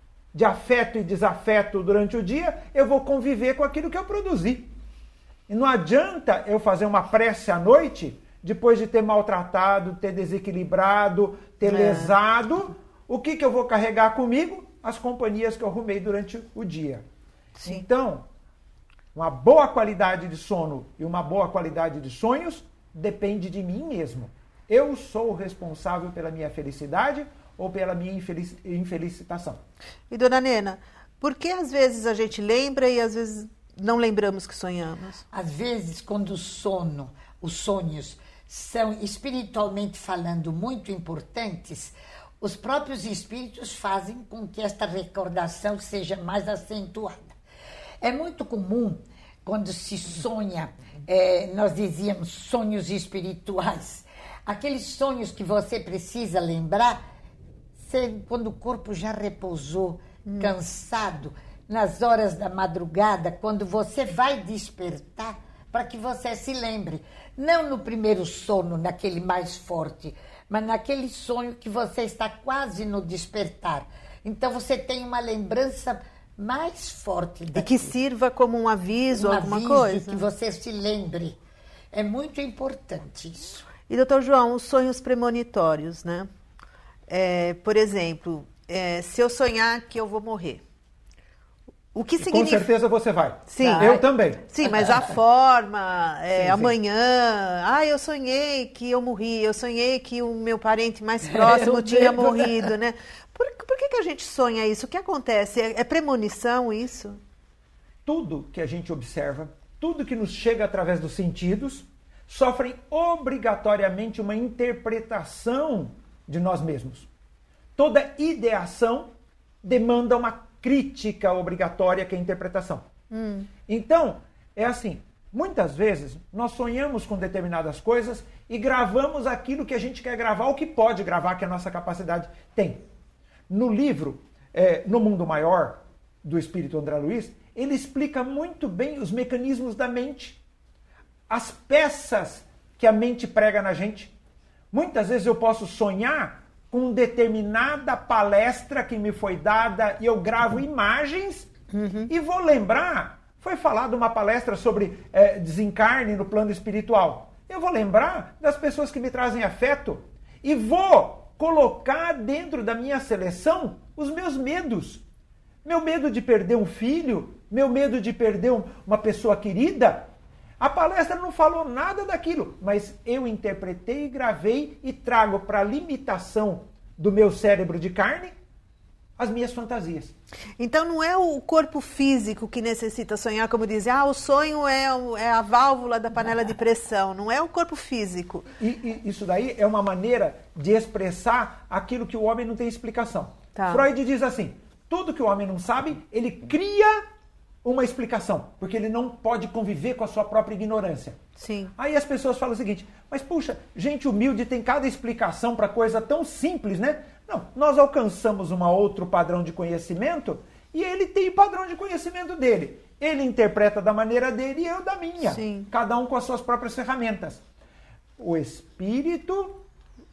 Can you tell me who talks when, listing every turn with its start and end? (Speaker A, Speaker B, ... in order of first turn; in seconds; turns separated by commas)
Speaker A: 0.3-4.7, Speaker A: 5.5-17.1, Speaker B: 11.6-12.2, Speaker B: 17.6-17.9, Speaker A: 17.6-18.3, Speaker A: 19.1-29.6, Speaker B: 30.1-35.2, Speaker C: 35.3-47.4, Speaker C: 48.0-57.0, Speaker C: 57.8-78.0, Speaker B: 60.2-60.5, Speaker B: 77.5-80.2, Speaker C: 79.1-81.4, Speaker C: 81.9-83.7, Speaker B: 83.9-86.3, Speaker B: 87.1-90.6, Speaker B: 91.9-92.7, Speaker A: 92.2-94.5, Speaker B: 93.5-107.2, Speaker C: 93.6-93.9, Speaker A: 96.3-96.7, Speaker C: 101.3-102.7, Speaker A: 108.0-117.1, Speaker A: 117.8-119.1, Speaker A: 119.6-122.9, Speaker B: 123.1-123.5, Speaker A: 123.7-132.8, Speaker A: 133.5-140.4, Speaker A: 141.3-144.1, Speaker A: 144.7-151.5, Speaker B: 151.7-152.1, Speaker A: 152.1-165.0, Speaker A: 165.6-178.3, Speaker A: 179.2-180.1, Speaker B: 180.6-188.5, Speaker A: 188.6-197.0, Speaker B: 193.6-193.9, Speaker A: 197.6-201.2, Speaker B: 201.4-201.7, Speaker A: 201.8-217.4, Speaker B: 215.2-215.7, Speaker A: 218.2-219.6